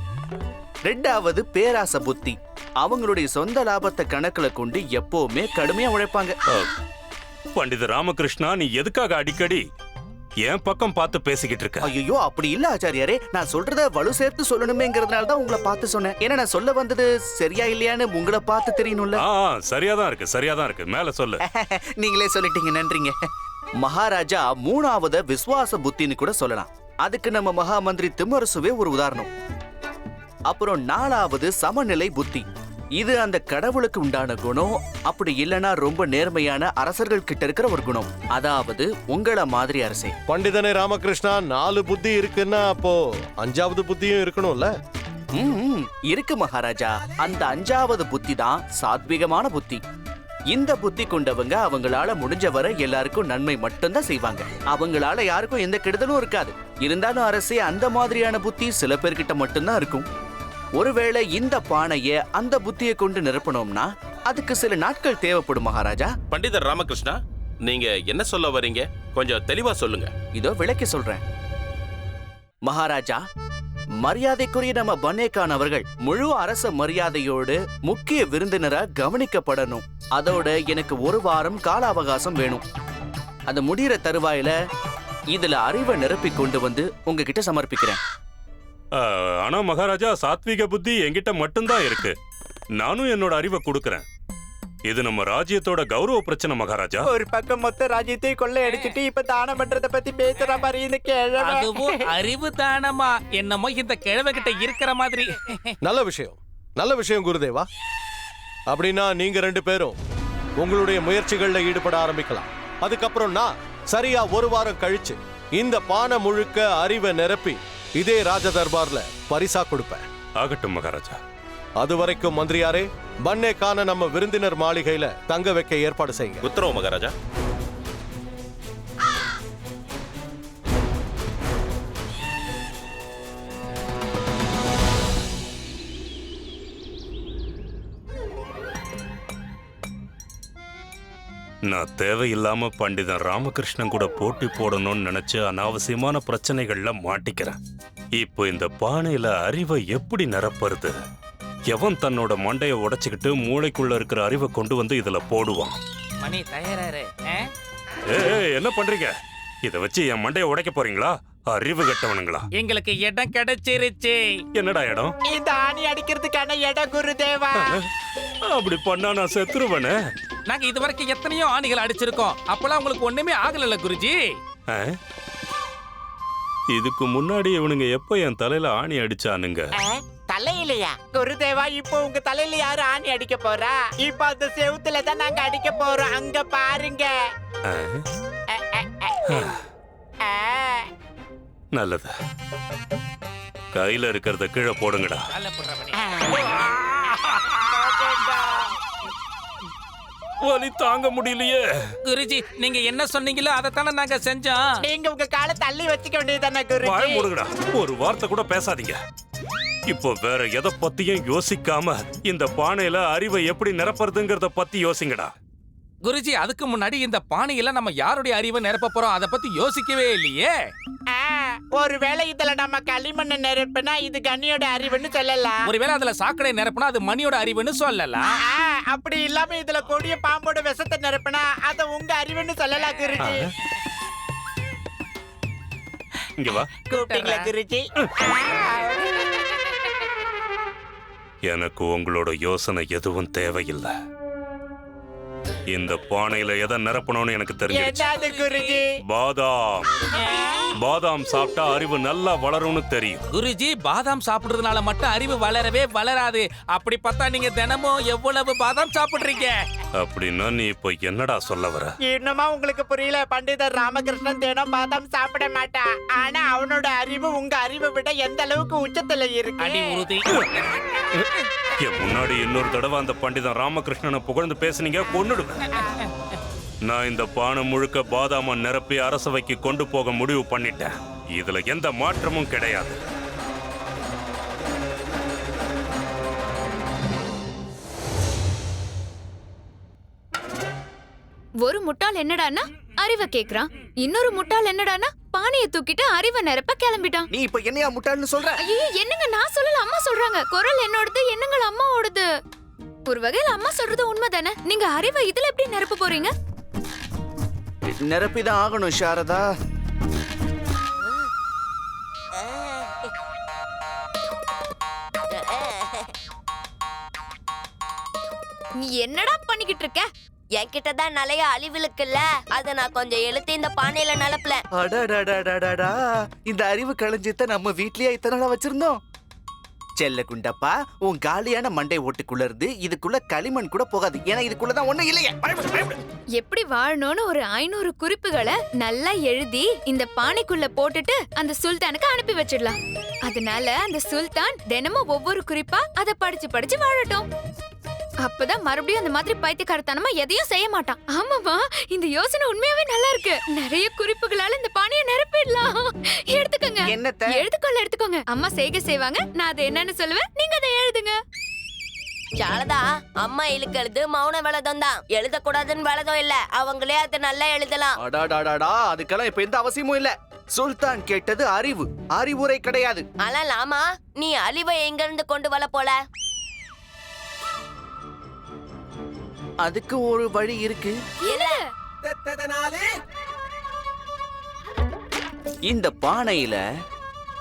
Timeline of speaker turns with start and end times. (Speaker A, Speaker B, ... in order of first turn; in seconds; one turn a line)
Speaker A: 0.9-6.4
Speaker B: 7.5-9.6
Speaker B: 10.5-11.9
Speaker A: 11.8-19.2
Speaker B: 19.2-21.4
Speaker A: 21.4-23.2
Speaker A: 23.8-29.3
Speaker A: 30.5-32.5
Speaker A: 33.0-40.1
Speaker C: 40.3-44.7
Speaker A: 45.4-49.8
Speaker A: 50.5-60.1
Speaker A: 60.8-66.1
Speaker D: 66.3-70.1
Speaker A: 70.4-71.2
Speaker A: 72.7-73.2
Speaker A: 74.0-82.6
Speaker A: 83.5-84.5
Speaker A: 85.3-88.0
Speaker B: 89.0-92.2
Speaker B: 92.8-94.0
Speaker B: 94.9-97.1
Speaker E: 97.1-102.0
Speaker F: 98.6-99.0
Speaker F: 101.4-105.7
Speaker C: 105.8-107.7
Speaker C: 108.7-110.0
Speaker C: 110.6-120.0
Speaker B: 120.4-121.2
Speaker C: 121.8-126.5
Speaker D: 126.5-127.1
Speaker B: 141.7-147.6
Speaker B: 148.2-150.9
Speaker B: 151.7-155.8
Speaker F: 156.2-157.5
Speaker B: 158.1-159.1
Speaker B: 159.7-162.5
Speaker F: 162.5-164.4
Speaker B: 164.6-165.2
Speaker E: 165.3-167.7
Speaker B: 167.6-167.8
Speaker B: 168.5-169.9
Speaker F: 170.5-174.4
Speaker B: 176.8-179.7
Speaker E: 180.3-187.1
Speaker B: 187.7-188.1
Speaker E: 188.6-189.1
Speaker B: 189.3-189.6
Speaker E: 190.3-190.8
Speaker B: 191.7-192.1
Speaker B: 193.7-195.2
Speaker F: 195.3-196.0
Speaker B: 196.3-197.9
Speaker E: 197.8-198.7
Speaker B: 200.4-201.6
Speaker F: 202.1-204.8
Speaker E: 204.9-207.2
Speaker B: 206.8-209.0
Speaker B: 209.9-215.3
Speaker F: 216.0-220.6
Speaker E: 221.2-225.6
Speaker F: 225.7-228.3
Speaker E: 228.5-233.4
Speaker B: 236.4-236.8
Speaker F: 236.9-237.5
Speaker E: 236.9-237.8
Speaker B: 241.5-243.9
Speaker B: 245.7-248.2
Speaker E: 247.7-248.8
Speaker F: 248.1-248.8
Speaker B: 249.1-249.9
Speaker B: 250.8-253.2
Speaker F: 253.3-259.6
Speaker B: 260.0-261.9
Speaker E: 262.1-270.0
Speaker F: 269.6-270.5
Speaker B: 271.8-275.6
Speaker B: 276.9-283.0
Speaker G: 291.6-297.3
Speaker A: 297.3-298.6
Speaker G: 298.6-302.3
Speaker G: 303.1-306.3
Speaker A: 307.9-309.4
Speaker H: 315.3-316.1
Speaker G: 318.8-320.1
Speaker H: 320.6-324.6
Speaker A: 324.8-329.0
Speaker A: 330.0-335.9
Speaker G: 336.4-347.3
Speaker G: 348.2-361.2
Speaker A: 356.9-357.5
Speaker H: 362.4-368.0
Speaker A: 368.0-373.1
Speaker H: 373.2-376.0
Speaker A: 379.6-381.0
Speaker G: 381.3-381.6
Speaker H: 381.3-381.6
Speaker A: 385.7-386.6